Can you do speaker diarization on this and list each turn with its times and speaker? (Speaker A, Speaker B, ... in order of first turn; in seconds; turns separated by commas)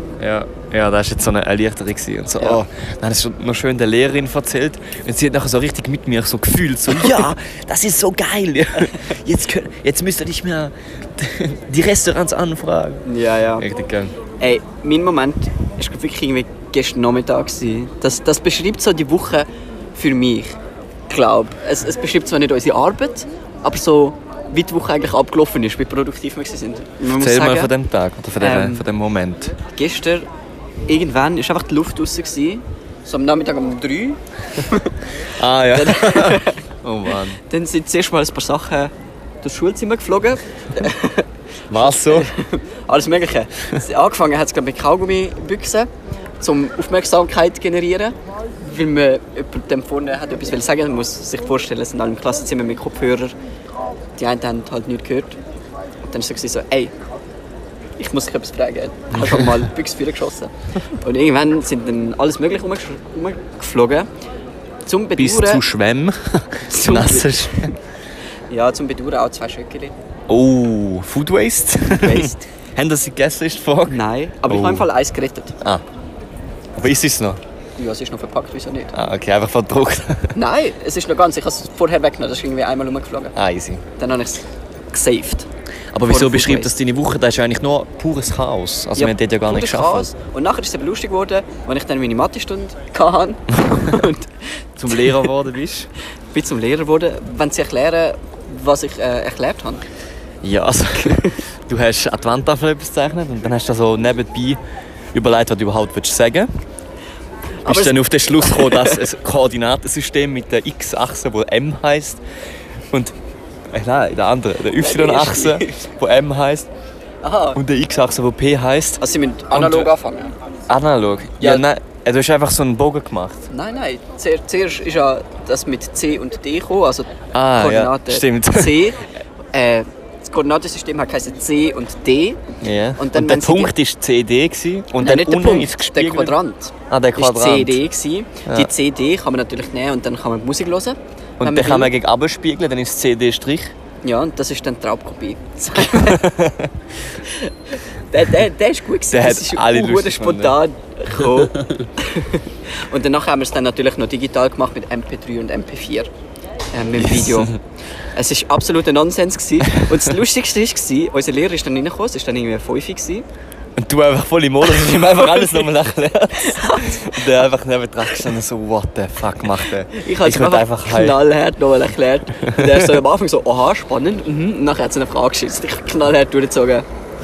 Speaker A: 0.2-13.1, Speaker B: 13.1-13.7, Speaker A: 13.6-14.2, Speaker B: 14.4-20.6, Speaker B: 21.1-27.7, Speaker A: 27.2-29.6, Speaker B: 28.4-28.9, Speaker B: 29.7-30.3, Speaker B: 30.9-35.1, Speaker A: 35.3-37.4, Speaker B: 35.7-36.7, Speaker B: 37.4-53.4, Speaker A: 41.7-42.3, Speaker B: 54.2-55.4, Speaker B: 56.1-56.9, Speaker B: 58.0-64.1, Speaker A: 59.1-59.6, Speaker B: 64.9-65.6, Speaker A: 65.2-67.7, Speaker B: 66.7-67.5, Speaker B: 68.5-69.9, Speaker A: 70.3-74.9, Speaker B: 71.9-72.4, Speaker B: 73.9-75.5, Speaker A: 76.8-77.4, Speaker B: 77.8-78.9, Speaker A: 78.9-80.4, Speaker B: 80.3-83.3, Speaker A: 83.3-83.8, Speaker B: 84.0-85.5, Speaker A: 85.9-90.1, Speaker B: 86.1-86.8, Speaker B: 89.0-95.3, Speaker A: 94.8-95.9, Speaker B: 96.3-99.8, Speaker A: 100.4-104.6, Speaker B: 101.1-101.3, Speaker A: 105.1-106.5, Speaker B: 107.6-109.0, Speaker A: 107.7-112.2, Speaker A: 113.7-116.7, Speaker B: 114.8-115.8, Speaker B: 117.2-117.6, Speaker A: 117.6-119.9, Speaker B: 119.0-120.3, Speaker A: 120.7-123.5, Speaker B: 123.5-132.4, Speaker A: 127.3-128.9, Speaker A: 132.6-136.3, Speaker B: 133.0-133.7, Speaker B: 135.0-141.9, Speaker A: 136.9-137.8, Speaker A: 138.5-138.7, Speaker A: 141.4-143.7, Speaker B: 144.0-146.3, Speaker A: 145.9-146.7, Speaker B: 147.2-156.1, Speaker A: 149.1-150.6, Speaker B: 156.7-157.5, Speaker A: 156.9-157.6, Speaker B: 158.1-163.3, Speaker A: 163.8-171.2, Speaker B: 165.3-165.7, Speaker B: 166.4-167.2, Speaker B: 169.9-176.9, Speaker A: 172.4-172.9